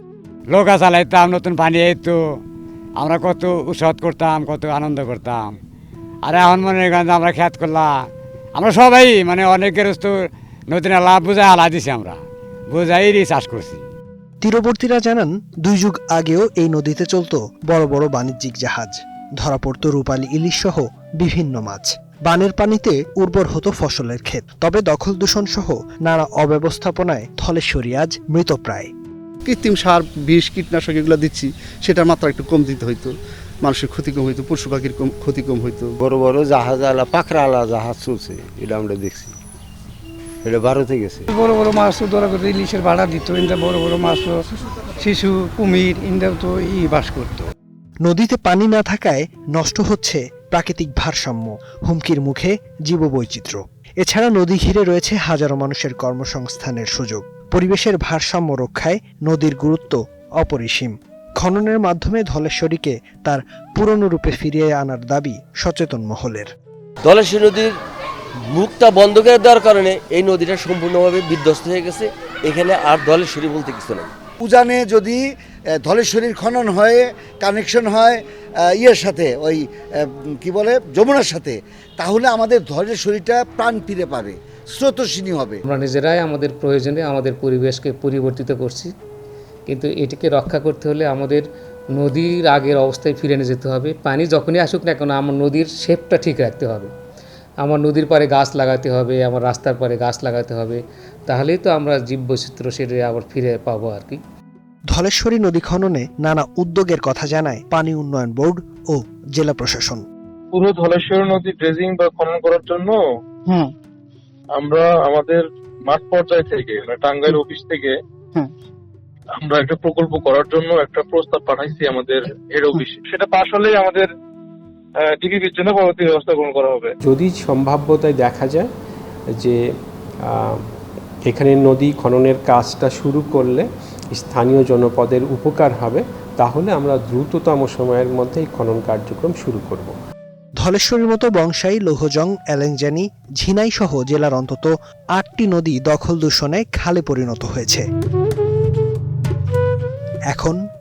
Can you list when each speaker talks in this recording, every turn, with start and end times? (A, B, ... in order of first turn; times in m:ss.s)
0:00.5-0:02.2 A
0:03.0-0:05.6 A
0:06.2-0:07.9 A
0:08.6-0:10.1 A
0:10.7-0:12.2 A
0:12.7-0:13.8 A
0:14.4-0:28.9 B
0:29.4-0:35.9 C
0:36.0-0:39.3 D
0:40.4-0:41.2 D
0:41.4-0:44.3 E
0:45.0-0:47.4 E
0:48.0-1:06.5 B
1:07.0-1:07.7 F
1:08.5-1:14.1 F
1:14.4-1:15.2 G
1:15.8-1:25.6 G
1:25.7-1:28.9 H
1:29.7-1:36.9 H
1:37.6-1:44.2 H
1:44.9-1:50.0 B
1:50.5-1:53.0 I
1:54.6-1:57.9 I
1:59.4-2:04.1 I
2:05.2-2:06.9 I
2:07.0-2:08.7 J
2:10.3-2:10.6 J
2:11.2-2:20.0 J
2:20.6-2:27.8 B
2:30.3-2:30.6 B